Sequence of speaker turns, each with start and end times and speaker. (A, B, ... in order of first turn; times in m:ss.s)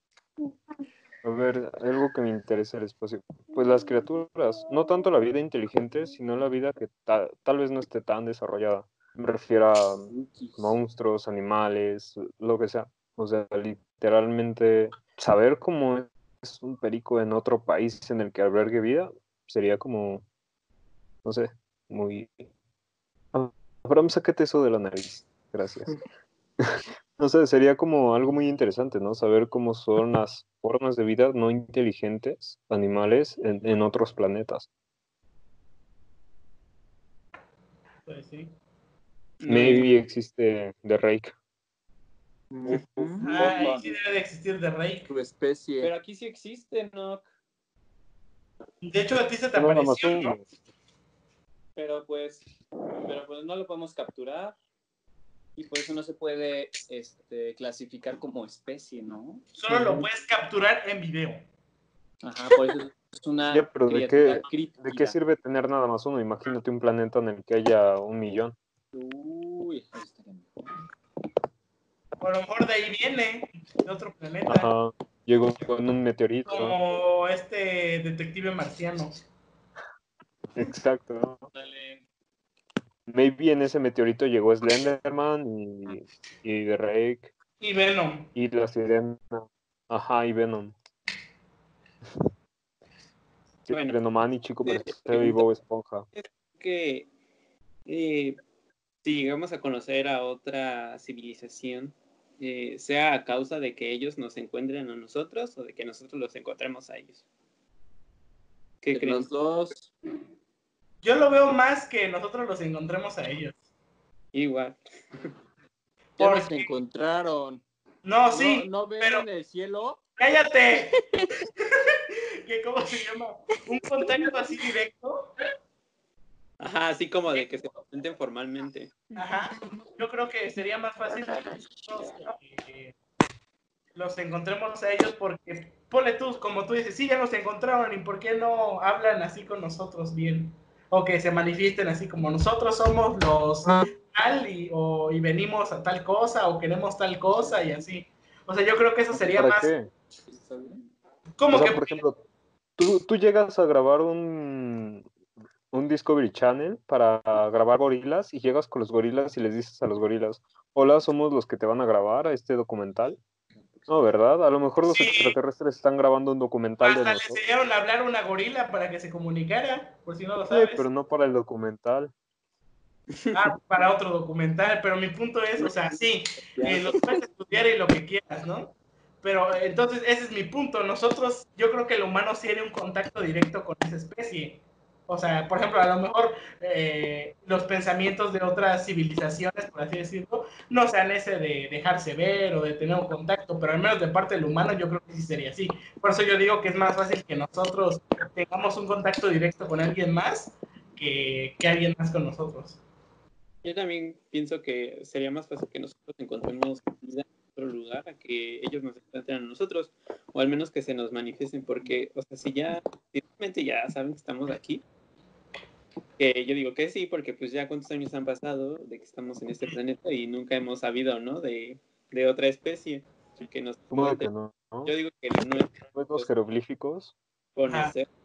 0:01.2-0:20.2 A
0:10.1-0:10.7 B
0:21.2-0:22.4 A
0:23.3-0:26.0 A
0:26.6-0:34.7 A
0:38.1-0:38.5 C
0:39.4-0:39.9 D
0:39.4-0:41.3 A
0:42.5-0:43.7 B
0:42.8-0:43.9 E
0:43.2-0:45.1 C
0:45.1-0:45.9 B
0:45.8-0:47.2 E
0:48.8-0:50.4 C
0:49.5-0:50.5 A
0:51.8-0:52.4 E
0:53.0-0:54.6 E
0:55.6-0:59.4 E
0:59.6-1:01.4 C
1:02.2-1:05.1 E
1:03.5-1:08.6 A
1:08.9-1:10.7 E
1:12.2-1:14.7 C
1:14.4-1:16.8 A
1:16.5-1:19.1 C
1:20.6-1:21.4 A
1:21.5-1:22.0 E
1:23.1-1:27.3 A
1:27.6-1:28.3 C
1:28.3-1:30.7 A
1:33.7-1:36.0 A
1:33.7-1:34.0 D
1:34.6-1:35.5 D
1:36.1-1:37.1 D
1:37.9-1:38.4 D
1:39.0-1:47.2 D
1:48.8-1:49.3 D
1:48.9-1:49.9 B
1:51.0-1:53.6 C
1:54.3-1:55.3 D
1:56.2-1:56.8 C
1:56.2-1:57.6 B
1:58.0-1:59.2 C
1:58.3-2:00.0 B
2:00.2-2:01.0 C
2:01.7-2:05.3 C
2:06.6-2:09.0 D
2:09.2-2:12.9 C
2:13.9-2:29.7 C
2:29.1-2:29.9 A
2:30.3-2:30.8 B
2:31.4-2:32.0 C
2:31.5-2:32.2 A
2:32.8-2:35.1 A
2:35.7-2:43.2 A
2:43.9-2:47.4 A
2:44.9-2:45.3 C
2:46.8-2:50.8 C
2:50.5-2:52.1 A
2:53.3-3:22.8 C
2:56.6-2:56.9 D
3:23.6-3:34.8 D
3:36.2-3:44.3 D
3:43.9-3:47.1 A
3:44.8-3:46.3 D
3:47.6-3:48.1 D